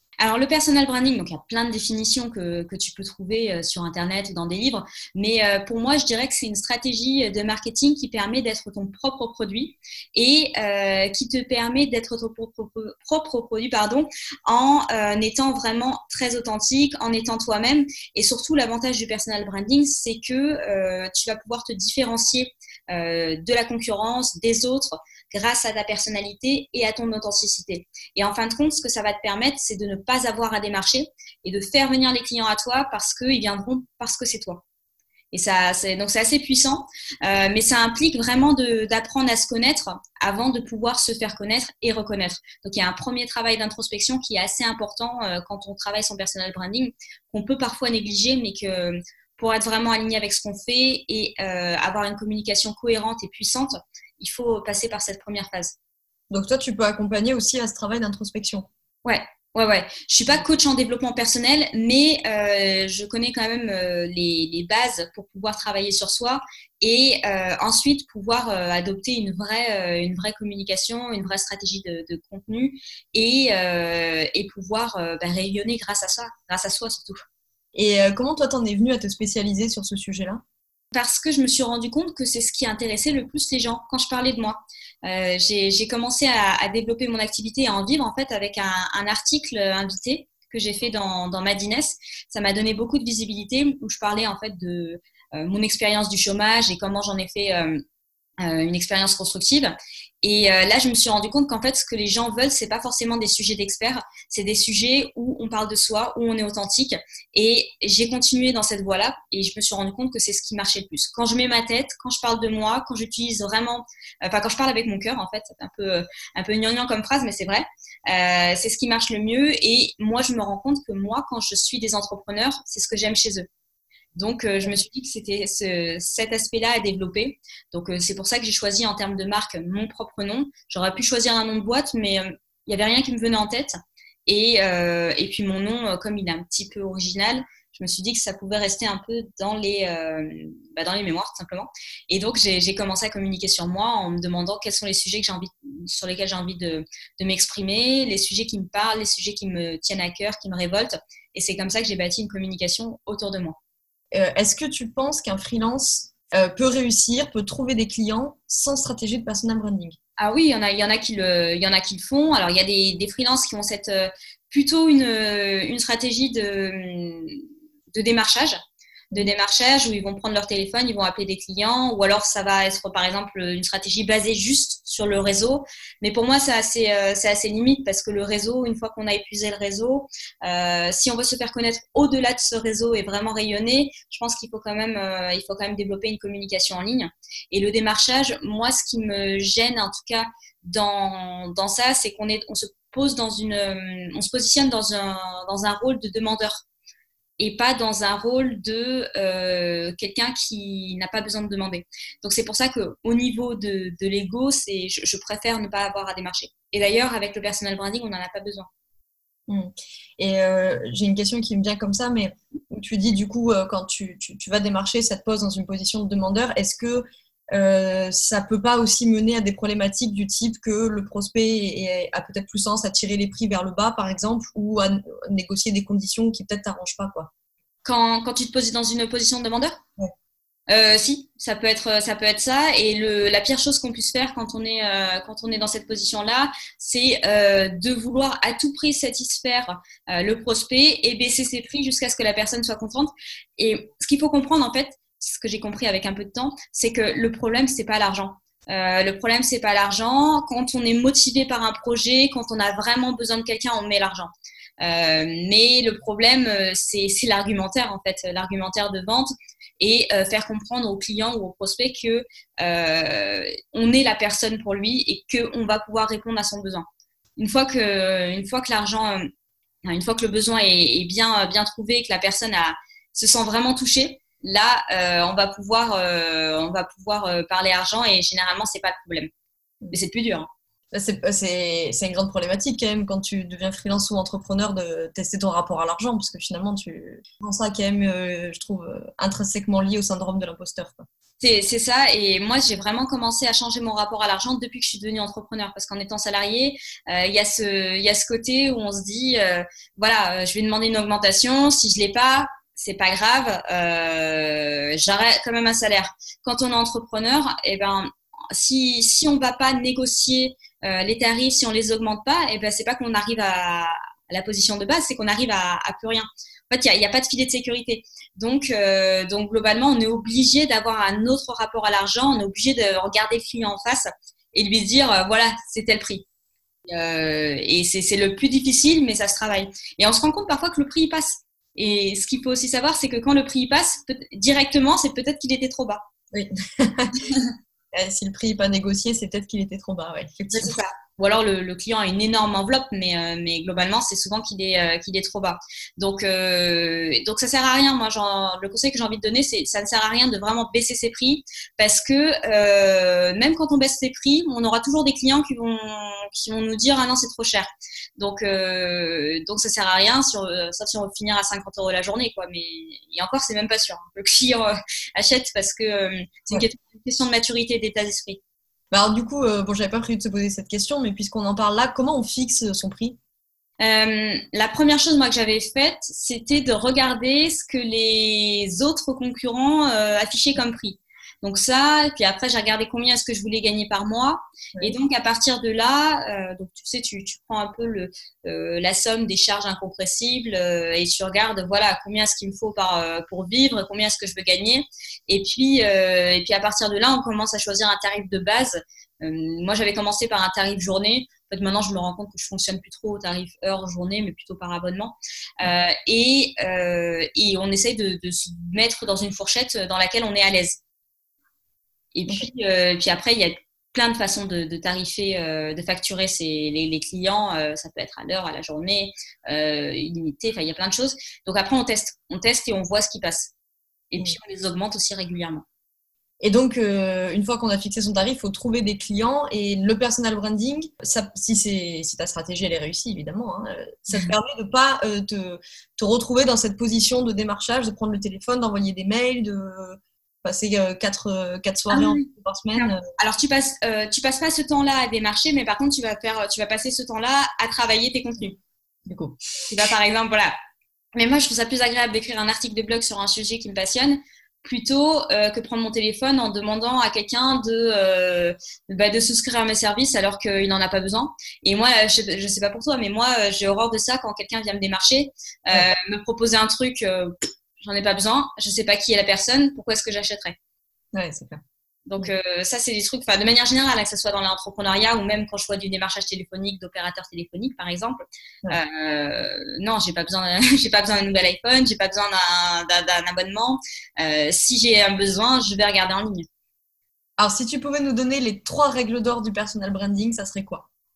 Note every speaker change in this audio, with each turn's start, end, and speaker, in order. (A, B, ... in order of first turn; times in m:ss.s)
0:00.2-0:34.6 A
0:35.3-0:55.8 A
0:56.3-0:58.7 B
0:59.0-1:17.2 A
1:17.7-1:20.4 B
1:20.9-1:37.8 A
1:38.4-2:03.5 A
2:04.2-2:33.6 A
2:34.1-2:40.0 B
2:40.2-2:47.4 A
2:47.9-2:48.6 A
2:49.1-3:16.6 A
3:17.4-3:28.7 A
3:29.5-3:47.3 B
3:47.8-3:49.8 A
3:50.7-4:26.8 A
4:27.4-4:29.3 A
4:29.8-4:39.3 A
4:39.9-4:40.5 A
4:40.9-4:51.0 B
4:51.4-5:26.2 A
5:26.9-5:36.0 A
5:36.3-5:37.2 B
5:37.2-5:37.5 A
5:37.9-5:40.8 B
5:40.5-6:08.4 A
6:08.9-6:13.2 B
6:13.8-6:50.8 A
6:52.1-7:03.5 A
7:04.1-7:05.6 A
7:06.4-7:23.0 B
7:21.9-7:28.6 A
7:29.0-7:29.4 B
7:29.7-7:30.5 A
7:31.1-7:50.6 A
7:51.1-7:51.6 B
7:52.1-8:06.5 A
8:07.4-8:10.8 B